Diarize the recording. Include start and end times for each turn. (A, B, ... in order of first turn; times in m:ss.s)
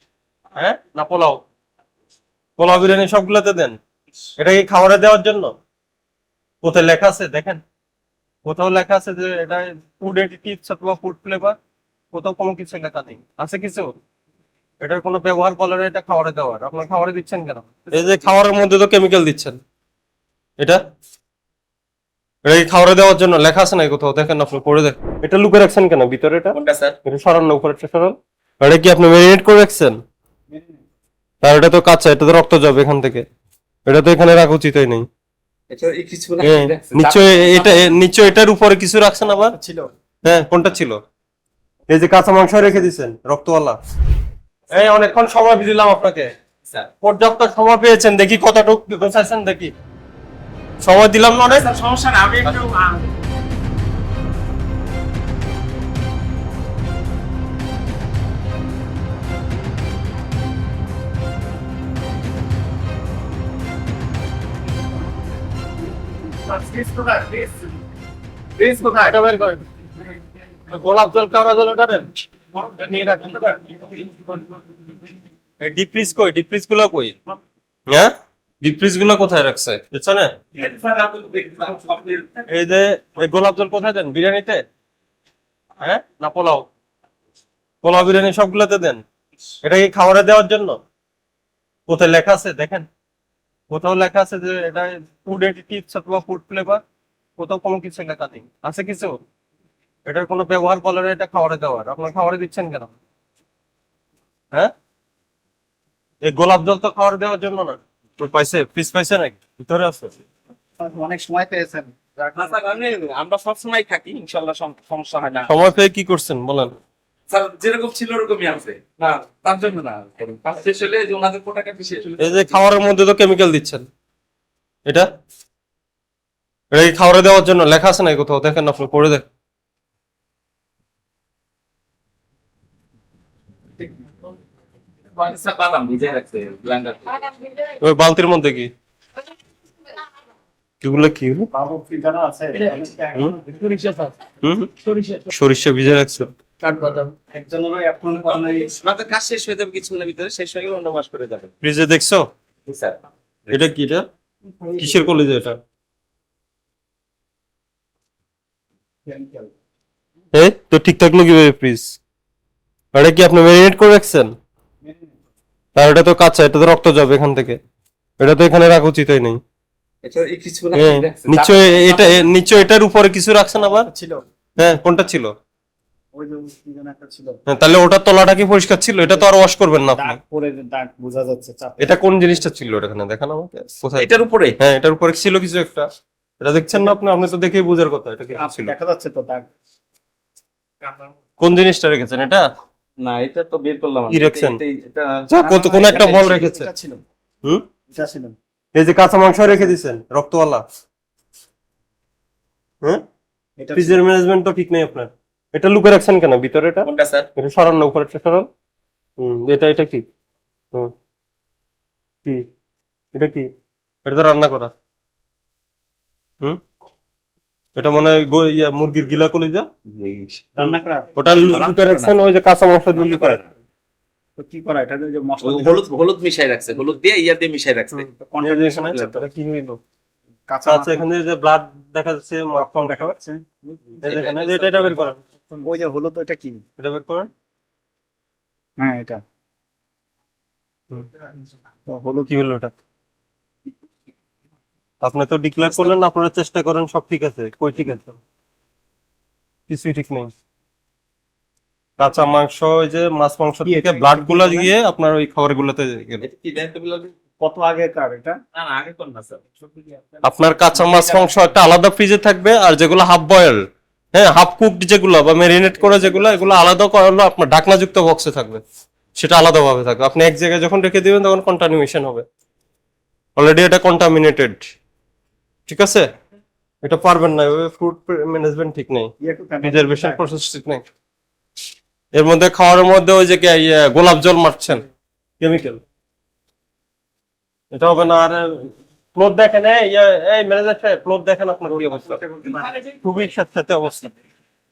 0:00.6-0:01.4 A
0:02.6-0:03.8 A
0:04.4-0:05.5 A
0:06.6-0:07.6 A
0:08.4-0:11.6 A
0:12.1-0:13.9 A
0:14.8-0:19.6 A
0:22.4-0:30.0 A
0:26.5-0:27.0 B
0:30.5-0:30.8 C
0:31.4-0:33.2 A
0:33.8-0:35.1 A
0:35.7-0:37.9 B
0:36.4-0:39.6 A
0:39.5-0:39.9 C
0:40.2-0:41.0 A
0:41.9-0:43.8 A
0:44.7-0:46.3 A
0:47.0-0:49.7 A
0:50.8-0:51.7 A
0:51.5-0:53.0 B
1:06.5-1:07.4 C
1:08.6-1:09.2 C
1:08.9-1:09.6 A
1:10.7-1:13.8 A
1:15.6-1:17.2 A
1:17.9-1:20.4 A
1:20.6-1:22.4 B
1:22.5-1:24.6 A
1:25.8-1:26.7 A
1:27.8-1:29.0 A
1:29.6-1:30.8 A
1:31.9-1:32.9 A
1:33.7-1:36.8 A
1:37.4-1:39.2 A
1:40.0-1:42.9 A
1:46.2-1:50.1 A
1:50.8-1:52.6 C
1:52.3-1:55.5 B
1:55.5-1:56.7 A
1:57.3-2:02.5 B
2:02.2-2:03.8 A
2:06.7-2:09.2 A
2:15.2-2:17.5 B
2:17.7-2:18.7 A
2:20.8-2:21.5 A
2:21.5-2:23.8 C
2:23.7-2:24.1 B
2:24.4-2:26.3 A
2:26.6-2:28.7 C
2:28.6-2:31.5 B
2:31.6-2:32.2 A
2:32.7-2:33.0 B
2:33.5-2:34.0 A
2:34.6-2:35.1 C
2:34.8-2:35.6 A
2:39.0-2:39.5 C
2:40.3-2:42.0 A
2:42.9-2:44.3 A
2:45.7-2:47.6 A
2:48.2-2:49.4 A
2:50.0-2:52.3 B
2:50.7-2:53.9 A
2:53.7-2:54.2 C
2:54.6-2:55.3 A
2:56.1-2:57.4 C
2:57.5-3:00.2 A
2:59.0-2:59.3 C
2:59.9-3:02.0 C
3:01.8-3:05.8 A
3:04.0-3:04.6 B
3:06.4-3:08.7 A
3:08.3-3:09.5 C
3:11.4-3:12.4 A
3:13.0-3:15.3 B
3:14.1-3:14.6 A
3:15.3-3:16.7 A
3:15.4-3:17.0 C
3:15.8-3:16.2 B
3:17.9-3:18.4 C
3:18.7-3:20.6 A
3:19.4-3:19.7 C
3:23.6-3:24.0 C
3:23.8-3:28.5 A
3:26.9-3:27.2 B
3:29.2-3:30.0 A
3:33.1-3:33.5 A
3:34.0-3:34.7 A
3:37.7-3:39.7 A
3:39.9-3:40.6 B
3:40.6-3:41.1 C
3:41.2-3:43.4 A
3:41.5-3:42.1 B
3:43.0-3:43.4 B
3:44.4-3:45.8 C
3:45.4-3:48.1 B
3:48.1-3:49.2 C
3:48.4-3:49.8 A
3:50.5-3:51.0 C
3:50.6-3:53.1 A
3:52.5-3:53.6 C
3:54.0-3:55.2 A
3:54.0-3:55.1 B
3:55.5-3:56.6 C
3:56.8-3:57.3 A
3:58.8-3:59.2 C
4:01.9-4:02.3 C
4:02.3-4:02.7 A
4:05.0-4:08.2 A
4:09.7-4:10.3 A
4:12.0-4:16.2 A
4:13.6-4:14.7 C
4:16.2-4:17.1 B
4:17.4-4:18.4 C
4:18.5-4:19.4 B
4:20.2-4:23.6 A
4:24.1-4:28.6 A
4:26.0-4:26.3 B
4:29.2-4:32.2 A
4:33.4-4:34.6 A
4:35.7-4:36.1 A
4:36.8-4:39.1 A
4:39.2-4:40.2 C
4:39.6-4:40.8 A
4:42.2-4:44.8 A
4:45.4-4:45.8 A
4:47.7-4:52.2 A
4:51.7-4:52.7 C
4:52.8-4:54.1 A